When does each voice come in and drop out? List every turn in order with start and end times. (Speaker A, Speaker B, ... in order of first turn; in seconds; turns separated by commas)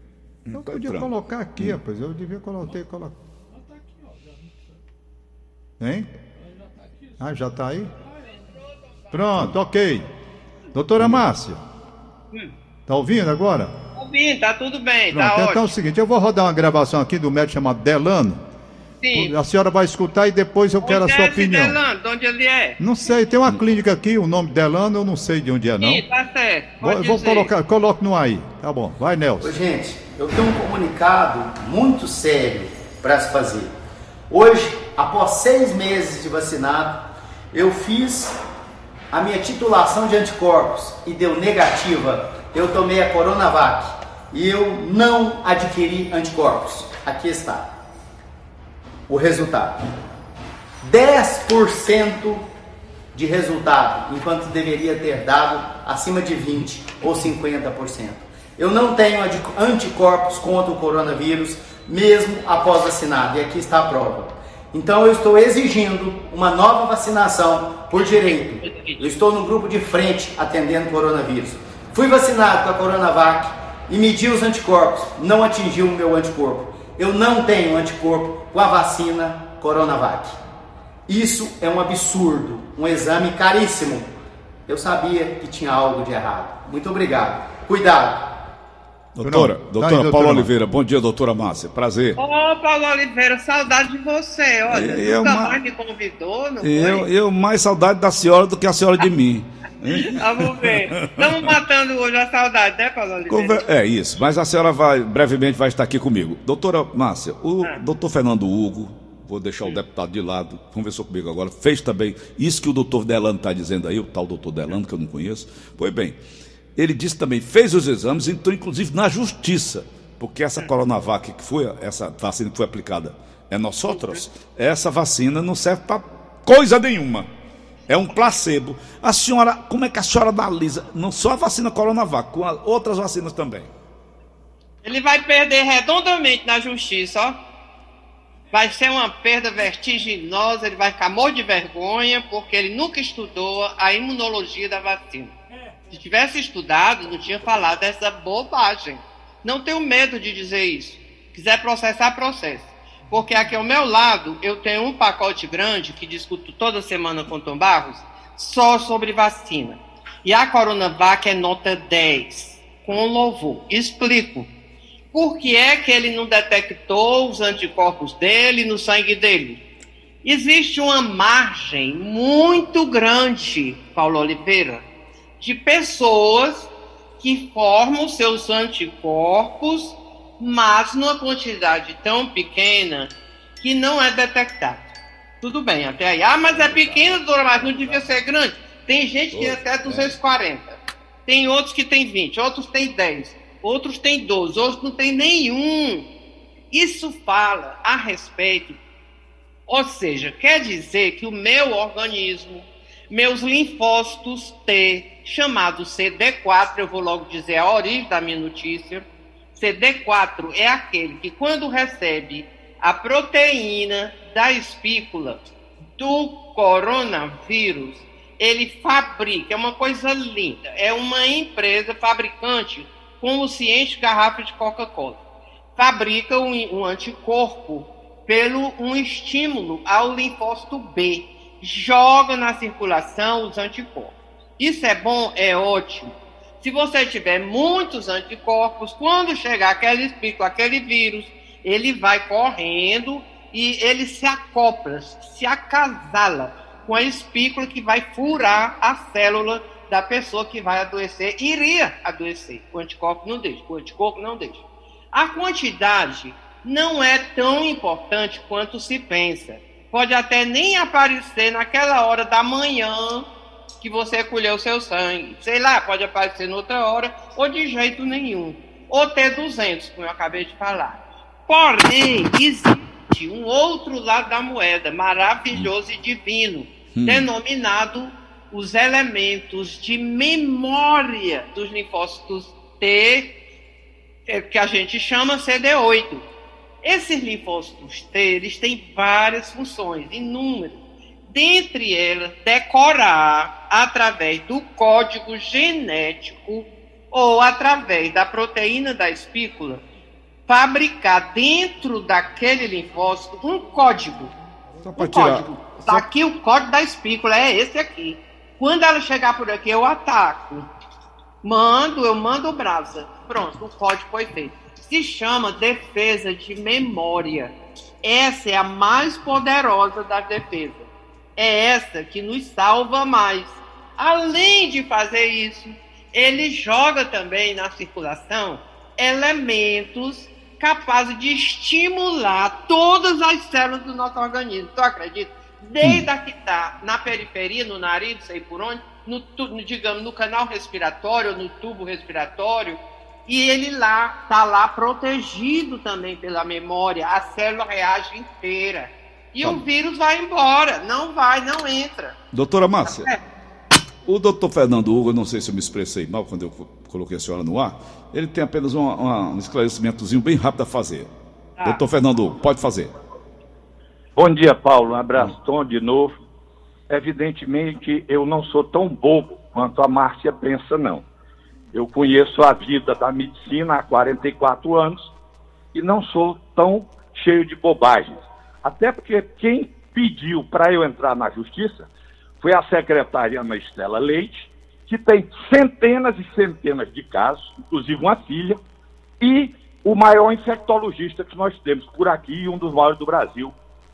Speaker A: 0.5-1.8, Speaker B: 0.5-3.2, Speaker B: 5.8-6.1, Speaker B: 7.2-7.9, Speaker B: 9.1-10.1, Speaker B: 10.7-11.6, Speaker B: 12.9-13.8, Speaker C: 14.0-15.7, Speaker B: 15.1-18.4, Speaker C: 19.0-19.4, Speaker B: 19.1-21.8, Speaker C: 20.8-22.8, Speaker B: 22.8-26.1, Speaker C: 25.8-27.5, Speaker B: 26.8-29.6, Speaker D: 29.4-33.7, Speaker D: 34.3-38.4, Speaker D: 39.1-47.7, Speaker D: 49.1-49.9, Speaker D: 50.8-52.5, Speaker D: 53.1-80.4, Speaker C: 68.6-69.0, Speaker D: 81.1-84.1, Speaker D: 84.7-88.4, Speaker A: 89.2-92.2, Speaker B: 89.2-90.5, Speaker C: 92.2-97.1, Speaker A: 94.7-95.6, Speaker A: 96.6-101.5, Speaker C: 99.9-103.6, Speaker A: 103.3-116.2, Speaker A: 116.8-127.3, Speaker A: 127.9-133.7, Speaker C: 134.8-137.4, Speaker C: 138.5-145.3, Speaker C: 145.9-164.5, Speaker C: 165.1-169.6, Speaker C: 170.2-174.9, Speaker C: 175.4-184.9, Speaker C: 185.4-196.1, Speaker A: 186.5-188.1, Speaker A: 189.3-190.2, Speaker C: 196.7-198.8, Speaker C: 199.7-215.4, Speaker C: 216.0-225.2, Speaker C: 225.8-263.3, Speaker C: 263.8-283.4, Speaker A: 276.9-277.3, Speaker C: 284.3-286.3, Speaker C: 286.8-299.8, Speaker C: 300.5-304.3, Speaker A: 304.8-306.1, Speaker C: 305.0-310.7, Speaker C: 311.4-352.2, Speaker A: 352.3-353.1, Speaker C: 352.8-353.2, Speaker A: 354.1-361.1, Speaker A: 361.6-362.9, Speaker E: 364.2-366.1, Speaker E: 366.9-371.1, Speaker E: 371.7-375.1, Speaker E: 375.7-381.9, Speaker E: 382.4-388.6, Speaker E: 389.2-393.5